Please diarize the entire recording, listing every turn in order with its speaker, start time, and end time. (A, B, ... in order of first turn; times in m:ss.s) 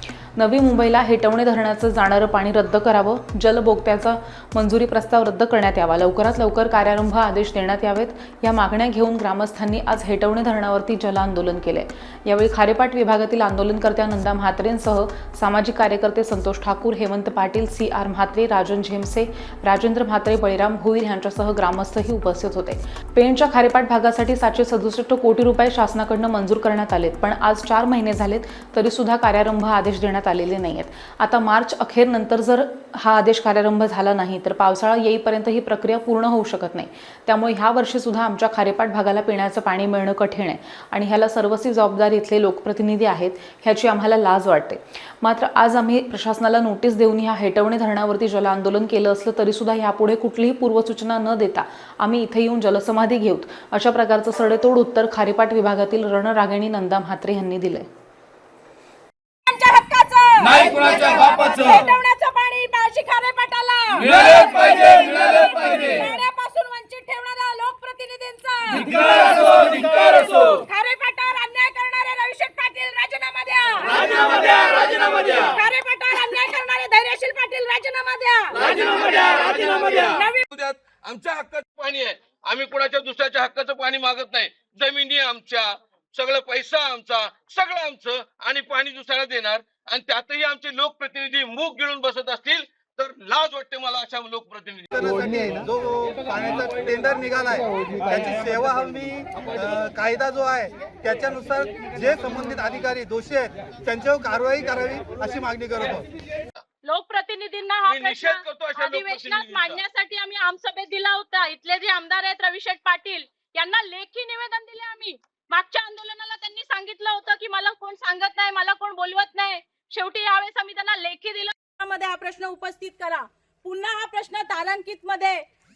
0:00.4-0:57.9 A
0:59.5-1:08.8 B
1:00.4-1:01.9 C
1:00.4-1:01.8 D
1:04.0-1:06.1 C
1:04.2-1:04.5 D
1:08.7-1:10.7 C
1:10.7-1:18.6 B
1:13.8-1:15.6 C
1:18.5-1:20.4 C
1:19.1-1:35.0 D
1:34.9-1:46.0 E
1:46.8-2:05.3 B
1:47.8-1:49.8 D